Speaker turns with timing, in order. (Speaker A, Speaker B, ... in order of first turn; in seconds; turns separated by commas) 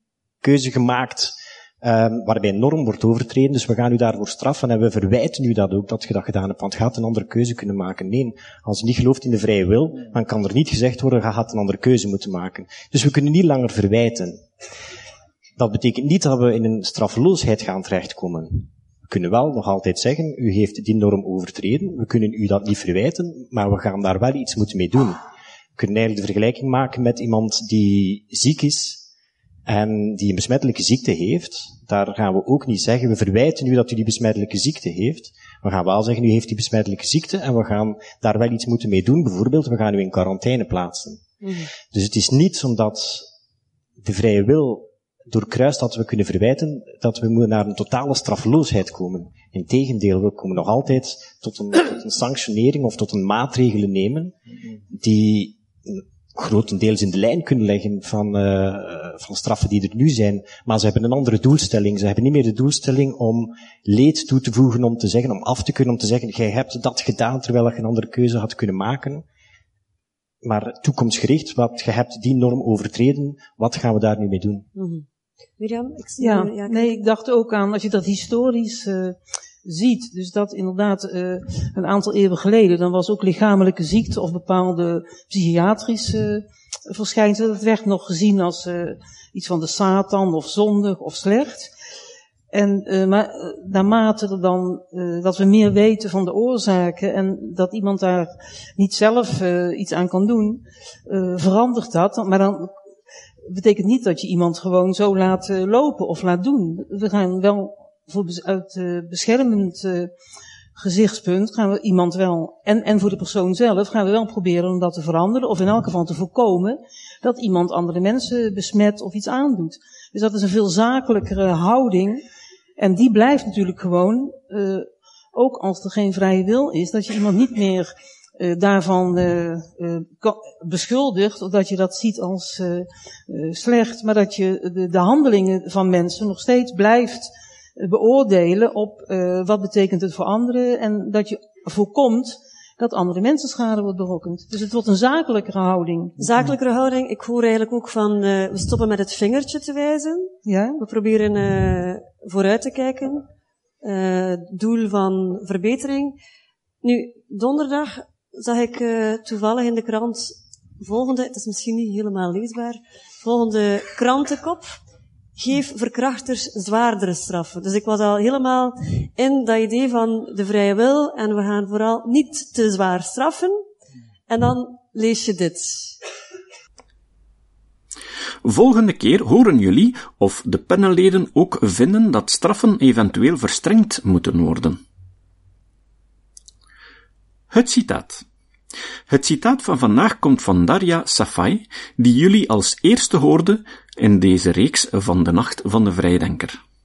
Speaker A: 0.4-14.5, Speaker A: 15.6-25.2, Speaker A: 25.8-29.0, Speaker A: 29.6-41.2, Speaker B: 41.4-41.7, Speaker A: 41.9-43.3, Speaker A: 44.0-54.4, Speaker A: 54.9-69.2, Speaker A: 70.4-74.7, Speaker B: 74.7-75.0, Speaker B: 75.6-77.0, Speaker C: 76.2-91.7, Speaker C: 92.5-102.8, Speaker C: 103.4-110.1, Speaker C: 110.8-122.2, Speaker C: 122.8-146.2, Speaker B: 146.2-153.3, Speaker C: 150.4-150.8, Speaker B: 153.8-156.2, Speaker B: 156.8-164.8, Speaker B: 165.3-173.6, Speaker B: 174.3-176.0, Speaker D: 178.4-184.8, Speaker D: 187.5-188.2, Speaker D: 189.1-196.6